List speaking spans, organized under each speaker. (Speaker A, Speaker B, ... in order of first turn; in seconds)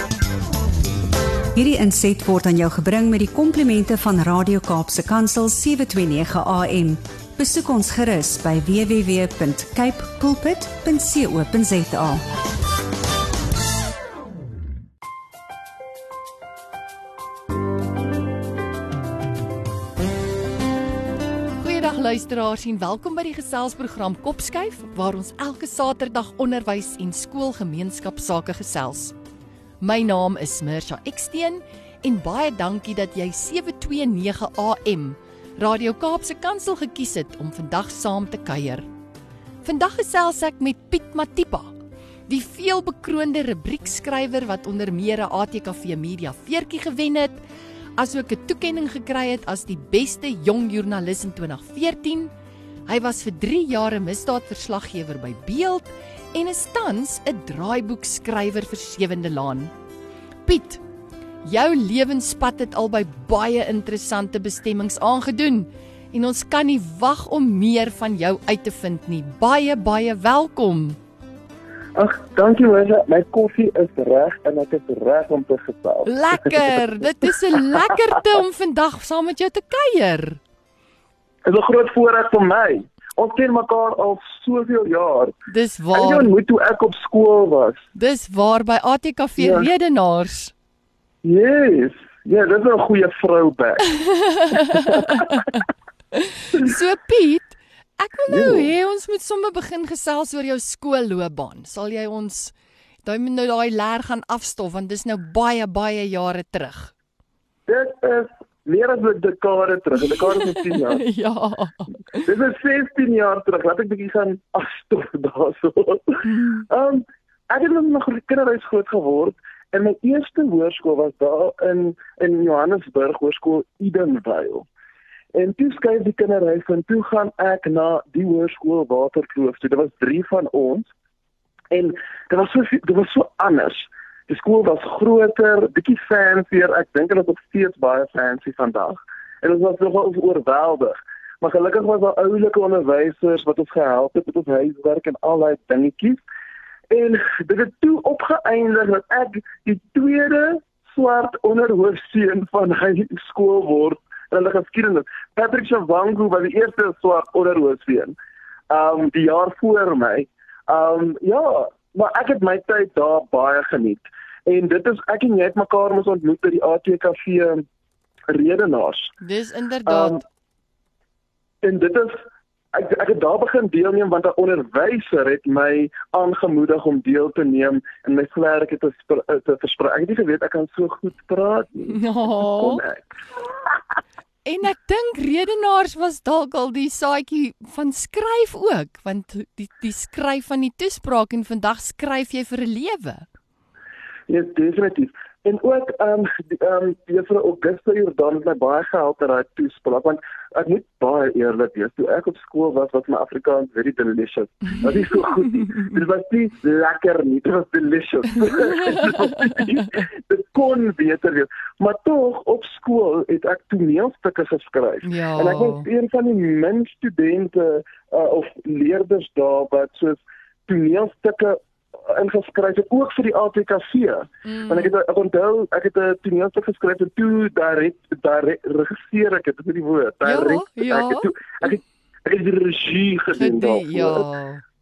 Speaker A: 1.6-12.2
Speaker B: 21.6-29.1, 29.8-38.9, 39.6-41.7, 42.3-47.4, 48.0-52.3, 52.9-59.7, 60.5-60.8, 61.4-71.0, 76.1-80.4, 85.5-86.3, 88.0-90.5, 94.0-95.6, 96.1-106.9, 111.0-112.2, 116.2-116.7, 169.2-170.2, 181.9-182.8, 184.4-193.2, 208.8-209.2, 215.0-215.8, 224.4-224.9, 230.2-231.3, 233.4-234.6
Speaker C: 72.0-78.0, 81.5-85.3, 85.9-87.9, 89.4-89.7, 91.2-93.9, 94.7-95.5, 98.3-98.7, 107.7-111.0, 112.2-124.7, 125.3-130.9, 131.7-146.2, 146.9-158.2, 158.7-167.6, 168.3-169.1, 169.9-170.2, 171.6-183.2, 194.3-234.3